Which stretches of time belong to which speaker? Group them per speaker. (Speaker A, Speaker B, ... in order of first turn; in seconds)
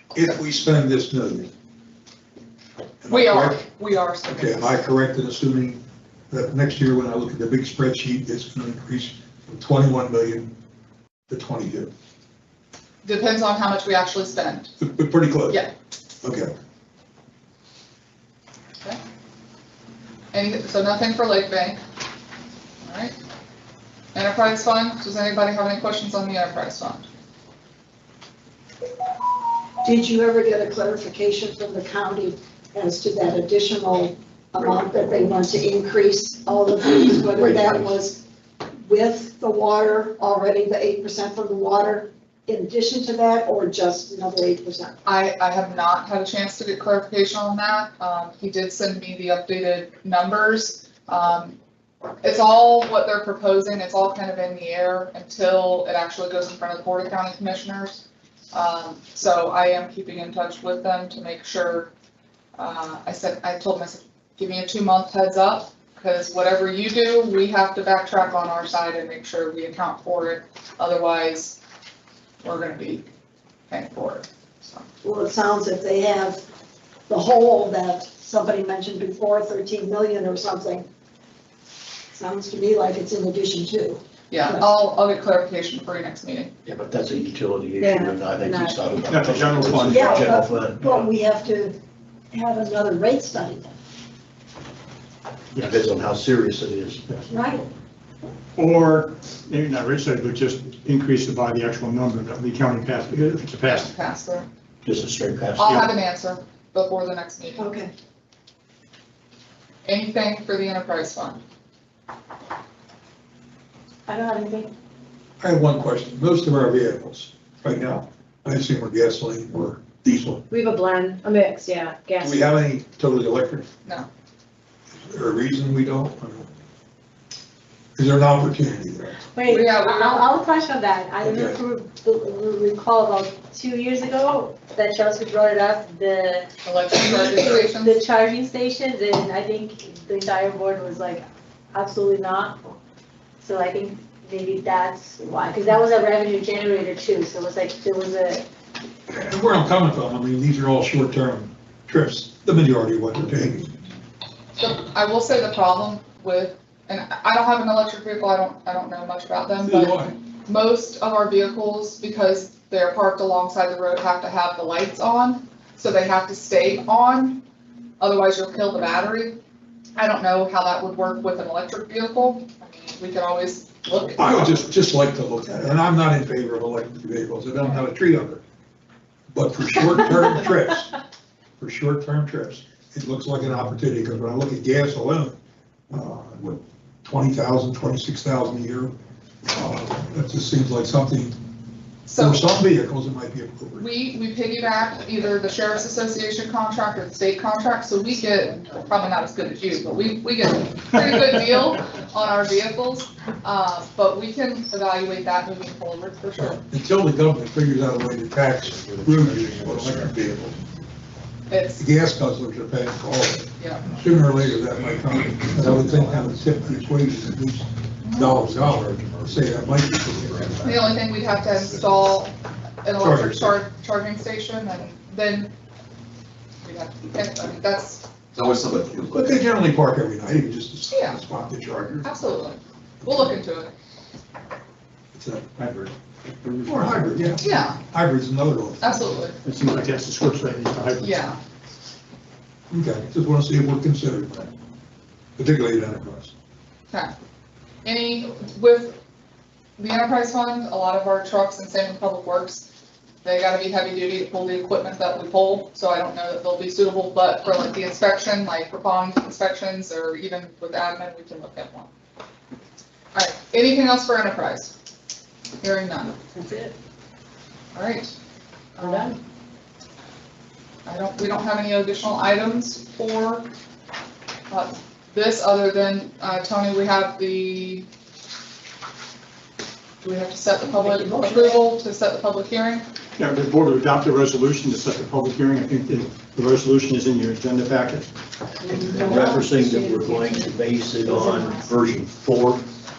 Speaker A: 0.1-1.5, 3.0-3.6, 4.3-10.5, 11.3-11.9, 14.8-15.6, 16.2-16.5, 115.4-120.4, 122.2-123.7, 124.9-126.5, 128.0-129.2, 131.2-131.6, 149.1-153.8, 159.6-160.2, 174.2-178.4, 179.3-181.0, 181.6-185.4, 185.9-189.0, 189.5-191.4, 192.2-193.9, 206.4-210.6, 211.8-220.5, 223.0-223.6, 229.0-232.1, 235.1-235.5, 236.7-239.2, 242.7-244.5, 245.4-246.3
Speaker B: 3.1-4.8, 13.0-14.8, 20.3-21.8, 22.8-23.1, 24.1-27.1, 45.0-51.6, 52.2-61.9, 62.6-71.6, 72.4-73.1, 73.7-74.9, 84.3-86.5, 103.7-104.5, 105.6-107.7, 109.8-111.4, 129.5-130.3, 136.6-138.0, 154.6-167.4, 168.0-169.4, 170.0-174.5, 192.1-192.5, 193.8-206.6, 211.5-211.8, 213.6-213.9, 218.0-218.4, 220.6-225.5, 226.6-228.1, 230.9-231.2, 232.0-233.7, 237.4-237.8, 238.8-239.4, 241.0-241.4, 247.8-249.0, 249.8-252.7, 253.2-261.9, 263.1-264.8, 265.6-266.2, 267.7-268.1, 268.8-269.2, 270.9-273.5, 274.5-277.9, 280.0-282.9
Speaker C: 29.8-38.2, 38.9-45.0, 75.0-76.4, 77.1-80.9, 82.1-84.7, 89.9-91.8, 92.3-93.8, 97.3-97.7, 107.6-107.9, 281.1-281.5
Speaker D: 37.4-37.8, 86.7-91.1, 95.6-97.0, 104.8-105.9, 288.7-292.6
Speaker E: 87.8-88.8, 114.1-114.7, 120.5-122.4, 129.3-142.6, 143.4-148.5, 266.3-266.7, 268.8-269.2, 288.7-291.7
Speaker F: 89.1-90.4, 95.5-95.8, 98.6-103.9, 235.6-237.3, 239.4-241.2, 283.2-288.1
Speaker G: 208.6-210.7, 213.8-217.4, 218.2-222.1, 228.3-229.3